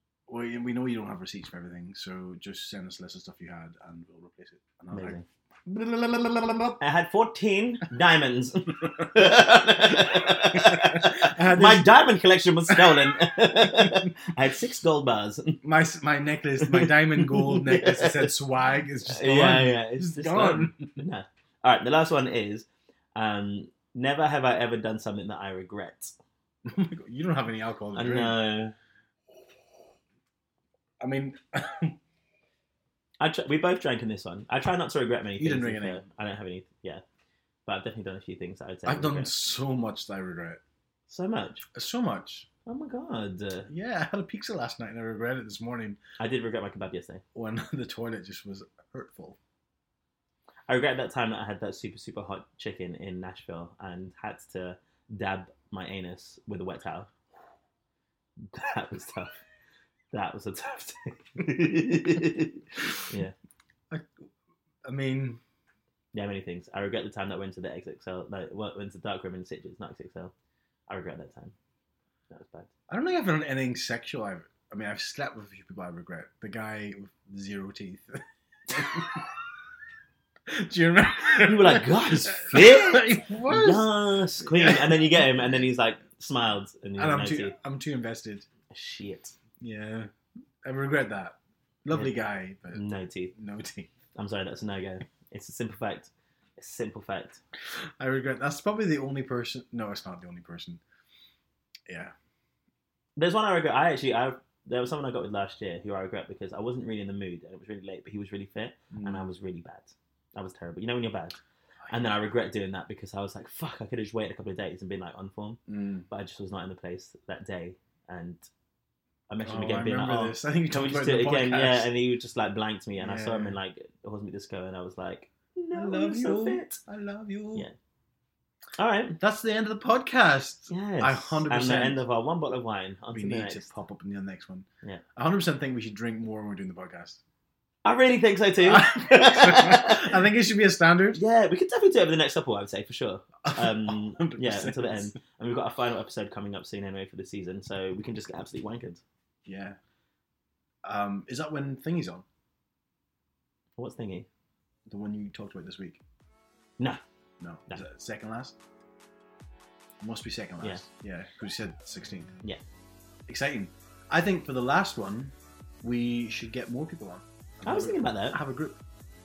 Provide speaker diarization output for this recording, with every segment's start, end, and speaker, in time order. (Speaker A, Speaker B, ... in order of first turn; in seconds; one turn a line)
Speaker A: 0.3-6.8
Speaker B: 4.9-5.2
Speaker B: 6.8-15.6
Speaker A: 8.8-12.0
Speaker A: 12.7-14.2
Speaker A: 15.6-21.0
Speaker B: 16.6-18.3
Speaker B: 19.1-26.1
Speaker A: 26.6-28.4
Speaker B: 27.9-28.7
Speaker A: 31.0-32.0
Speaker B: 33.2-37.0
Speaker A: 35.4-36.0
Speaker B: 37.6-39.3
Speaker A: 38.9-40.6
Speaker B: 41.1-41.6
Speaker A: 41.7-42.5
Speaker B: 42.6-43.7
Speaker A: 43.7-46.0
Speaker B: 46.2-47.2
Speaker A: 47.3-49.4
Speaker B: 50.7-57.1
Speaker B: 58.5-59.4
Speaker B: 60.1-63.3
Speaker A: 63.9-64.2
Speaker A: 64.8-65.4
Speaker B: 66.1-70.3
Speaker B: 70.9-71.5
Speaker B: 72.3-72.7
Speaker A: 72.9-79.4
Speaker A: 80.5-85.5
Speaker B: 81.4-87.5
Speaker A: 87.0-88.5
Speaker B: 88.7-89.4
Speaker A: 89.6-90.1
Speaker A: 90.6-92.8
Speaker B: 92.7-93.3
Speaker A: 93.3-93.9
Speaker B: 94.1-97.4
Speaker A: 97.7-100.8
Speaker A: 101.9-102.1
Speaker B: 103.2-111.4
Speaker A: 108.9-109.3
Speaker B: 111.9-118.5
Speaker A: 115.7-116.1
Speaker B: 119.3-126.8
Speaker A: 119.4-121.9
Speaker A: 123.0-123.6
Speaker A: 125.7-127.7
Speaker B: 128.8-129.2
Speaker A: 129.2-132.0
Speaker B: 130.7-133.7
Speaker A: 133.1-137.2
Speaker B: 137.8-140.2
Speaker A: 138.6-141.2
Speaker B: 141.1-149.0
Speaker A: 143.4-145.1
Speaker A: 149.4-149.8
Speaker A: 150.8-152.2
Speaker B: 153.8-154.3
Speaker A: 154.9-156.0
Speaker A: 157.4-158.6
Speaker A: 160.0-162.3
Speaker A: 163.3-168.8
Speaker B: 167.6-168.4